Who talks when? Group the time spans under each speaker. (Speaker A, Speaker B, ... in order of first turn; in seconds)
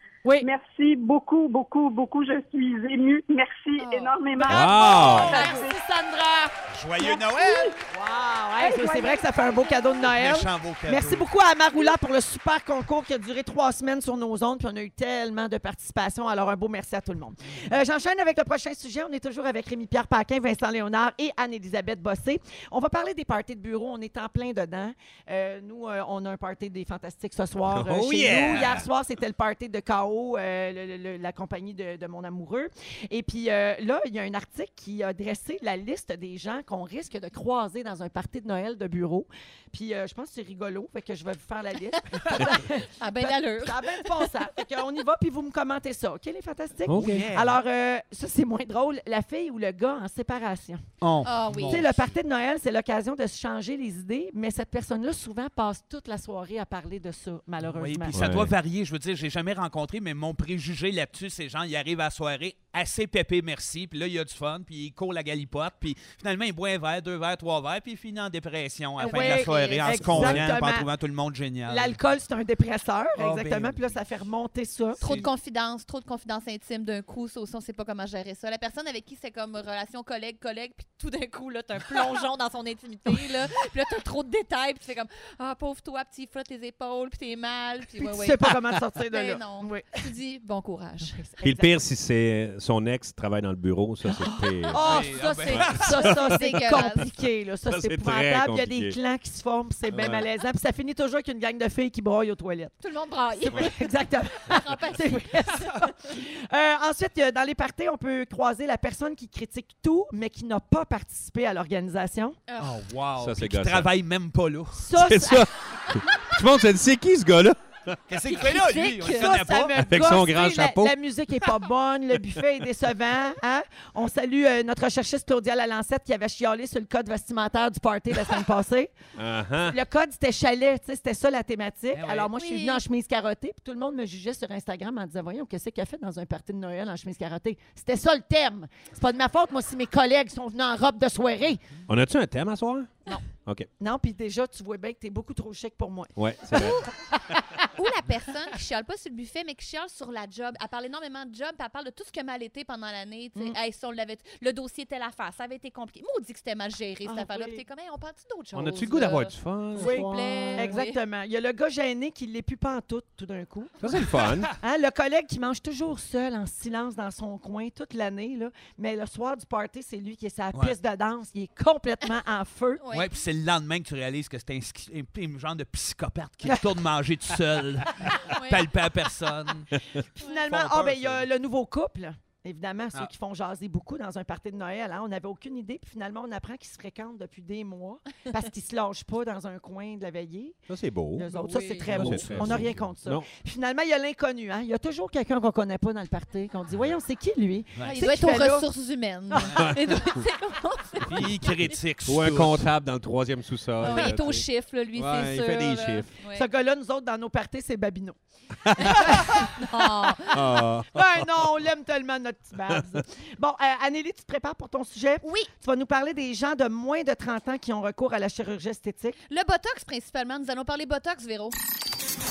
Speaker A: 0.4-5.8, 7.0-7.8, 8.6-10.0
Speaker B: 3.8-4.2, 42.1-44.3, 51.2-51.9, 69.0-69.9, 75.0-88.5, 89.1-91.2, 96.0-97.1, 102.8-105.7, 112.5-112.7, 118.2-119.3, 132.3-132.8, 147.7-161.0, 172.8-173.1, 178.3-178.7, 191.3-192.5, 197.8-201.5, 203.8-206.4, 208.8-210.4, 215.2-215.5, 219.3-221.6
Speaker C: 4.4-6.5, 7.9-50.8, 51.7-58.2, 69.0-70.9, 71.7-75.0, 88.0-90.0, 91.0-91.7, 94.7-102.8, 103.5-112.4, 114.7-115.5, 119.1-128.9, 129.7-141.6, 143.8-146.8, 157.1-157.6, 159.8-163.8, 164.6-172.8, 180.1-190.6, 191.1-198.7, 199.3-199.7, 206.3-208.2, 208.8-209.5, 210.9-219.2
Speaker D: 4.5-5.5, 27.7-28.9, 46.9-47.3, 58.1-58.5, 91.4-94.9, 95.5-96.2, 97.7-99.0, 99.9-100.3, 113.2-113.9, 114.9-118.0, 119.8-120.9, 129.2-129.8, 141.9-143.7, 146.2-146.8, 158.5-160.8, 163.8-164.5, 190.7-191.3, 191.9-193.3, 199.6-200.2, 201.0-206.1, 208.7-209.2, 210.3-211.5
Speaker E: 6.7-7.7, 10.1-11.3, 47.0-47.6, 51.0-51.9, 57.6-72.0, 73.1-74.0, 94.8-96.2, 112.6-114.8, 118.1-119.9, 131.9-132.3, 172.9-179.7, 180.5-181.3, 201.1-202.7